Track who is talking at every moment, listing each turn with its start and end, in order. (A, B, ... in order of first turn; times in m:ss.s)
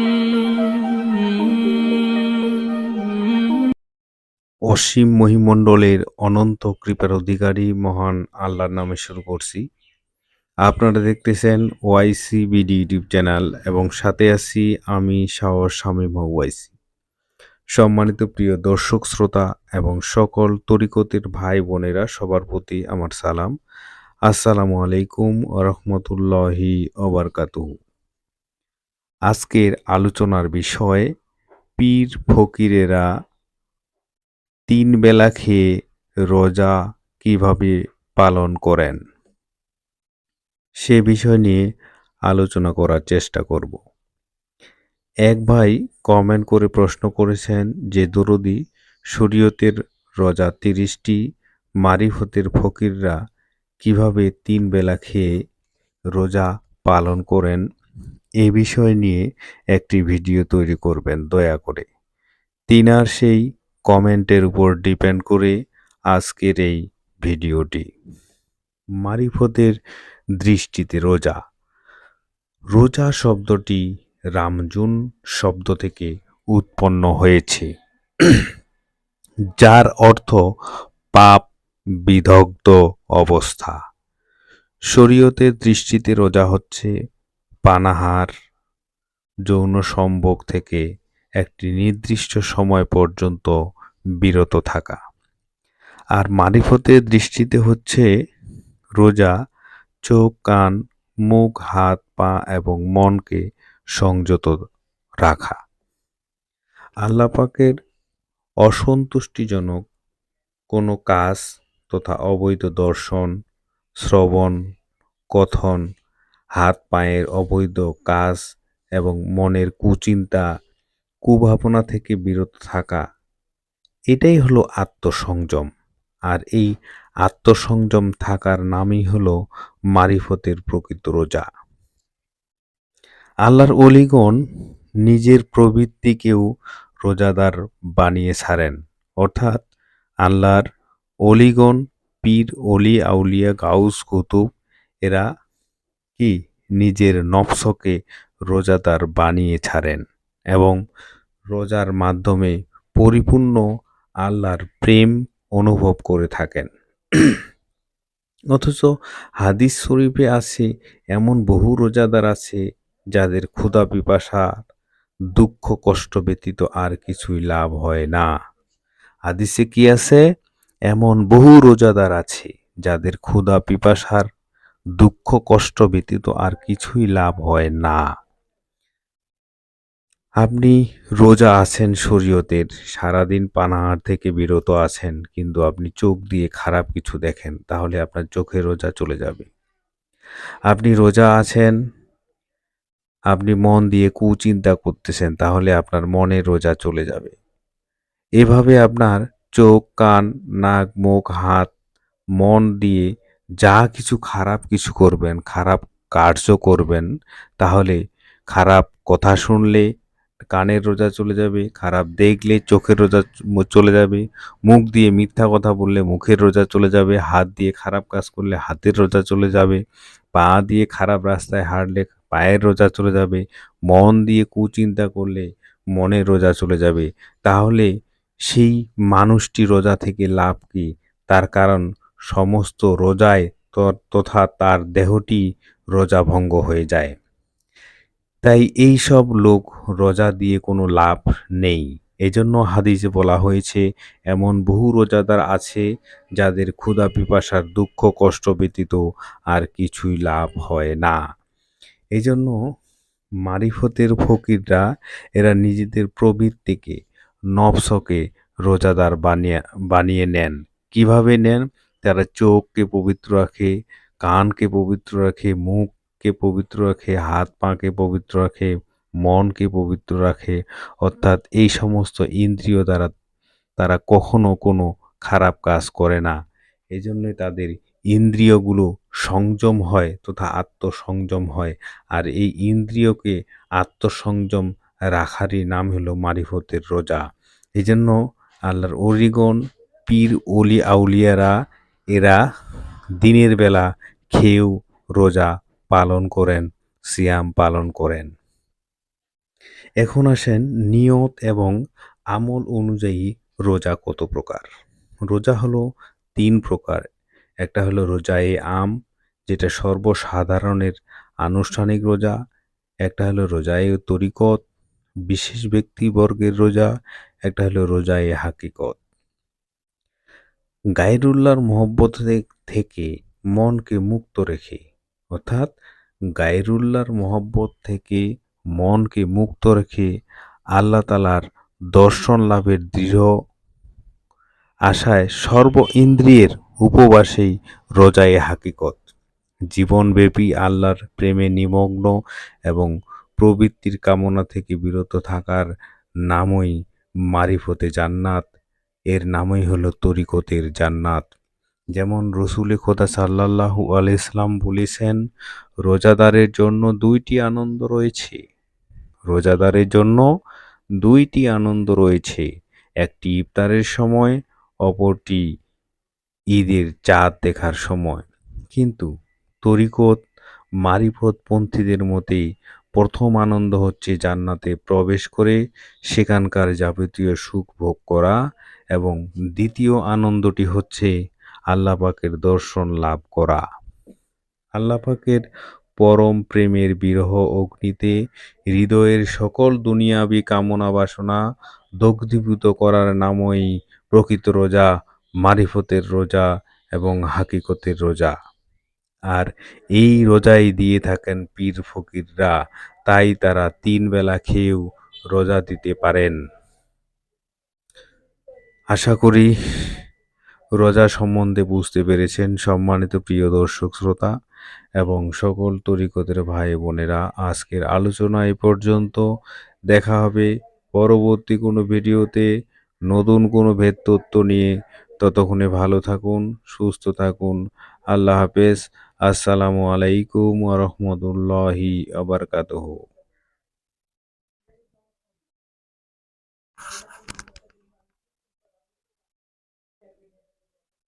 0:04.7-0:09.6 A
0:10.7-0:16.7 A
0:17.7-0:23.5 A
0:24.3-0:27.7 A
0:29.3-0:31.1 A
0:31.8-0:33.1 A
0:34.7-0:35.6 A
0:36.3-0:39.0 A
0:40.8-0:41.6 A
0:42.3-0:43.8 A
0:45.3-0:48.6 A
0:49.1-0:51.2 A
0:51.8-0:53.2 A
0:53.8-0:55.3 A
0:56.1-0:57.6 A
0:58.4-1:01.8 A
1:02.7-1:05.6 A
1:06.1-1:07.9 A
1:09.0-1:09.8 A
1:10.4-1:11.4 A
1:12.7-1:13.8 A
1:14.4-1:17.7 A
1:18.2-1:18.5 A
1:19.6-1:20.4 A
1:21.2-1:21.4 A
1:22.1-1:23.8 A
1:24.9-1:26.9 A
1:27.7-1:28.3 A
1:29.5-1:30.8 A
1:31.4-1:33.5 A
1:34.2-1:35.0 A
1:36.2-1:38.1 A
1:39.0-1:39.3 A
1:40.0-1:40.8 A
1:41.3-1:43.4 A
1:44.0-1:44.6 A
1:45.2-1:45.6 A
1:47.0-1:47.8 A
1:48.6-1:49.8 A
1:50.7-1:53.3 A
1:54.0-1:54.6 A
1:55.3-1:55.8 A
1:56.6-1:58.4 A
1:59.0-2:00.4 A
2:01.3-2:03.0 A
2:04.1-2:05.7 A
2:06.3-2:06.7 A
2:07.2-2:09.4 A
2:09.9-2:11.4 A
2:13.4-2:14.4 A
2:15.0-2:16.4 A
2:17.0-2:19.6 A
2:20.2-2:20.6 A
2:21.3-2:24.4 A
2:26.2-2:28.0 A
2:28.5-2:30.0 A
2:31.5-2:33.6 A
2:34.2-2:37.4 A
2:38.5-2:42.6 A
2:43.1-2:44.5 A
2:45.3-2:48.3 A
2:49.3-2:50.2 A
2:50.9-2:54.2 A
2:55.0-2:58.0 A
3:00.4-3:09.5 A
3:10.7-3:11.8 A
3:13.3-3:17.4 A
3:18.4-3:21.7 A
3:22.4-3:23.1 A
3:23.6-3:27.1 A
3:27.6-3:28.0 A
3:28.5-3:29.9 A
3:30.5-3:39.8 A
3:40.3-3:47.9 A
3:48.5-3:55.4 A
3:55.9-3:57.1 A
3:58.4-4:05.9 A
4:06.4-4:11.2 A
4:12.2-4:12.6 A
4:13.4-4:14.8 A
4:15.4-4:17.0 A
4:17.5-4:23.7 A
4:24.2-4:33.1 A
4:33.8-4:36.4 A
4:36.9-4:47.2 A
4:47.8-4:51.6 A
4:52.1-4:52.4 A
4:53.2-4:58.3 A
5:00.0-5:01.8 A
5:02.3-5:04.7 A
5:05.3-5:05.8 A
5:06.4-5:07.0 A
5:07.6-5:08.9 A
5:09.5-5:12.4 A
5:13.1-5:14.6 A
5:15.3-5:16.9 A
5:17.5-5:19.0 A
5:21.0-5:24.8 A
5:25.3-5:25.7 A
5:26.4-5:28.2 A
5:28.8-5:30.1 A
5:30.8-5:31.4 A
5:31.9-5:33.3 A
5:34.9-5:39.1 A
5:39.7-5:42.2 A
5:42.7-5:45.7 A
5:46.3-5:46.8 A
5:47.3-5:48.5 A
5:49.1-5:51.3 A
5:51.9-5:55.2 A
5:55.8-5:58.4 A
5:59.3-6:00.3 A
6:01.0-6:02.5 A
6:03.0-6:05.4 A
6:06.5-6:09.1 A
6:09.6-6:10.2 A
6:10.8-6:12.4 A
6:13.0-6:15.6 A
6:16.1-6:18.4 A
6:18.9-6:21.1 A
6:21.7-6:23.6 A
6:24.8-6:25.4 A
6:26.0-6:28.2 A
6:28.7-6:31.4 A
6:32.0-6:34.9 A
6:35.4-6:36.5 A
6:37.0-6:38.4 A
6:39.3-6:42.5 A
6:43.1-6:46.4 A
6:48.9-6:50.0 A
6:50.8-6:54.3 A
6:55.0-6:59.2 A
6:59.9-7:02.5 A
7:03.1-7:07.6 A
7:08.1-7:13.0 A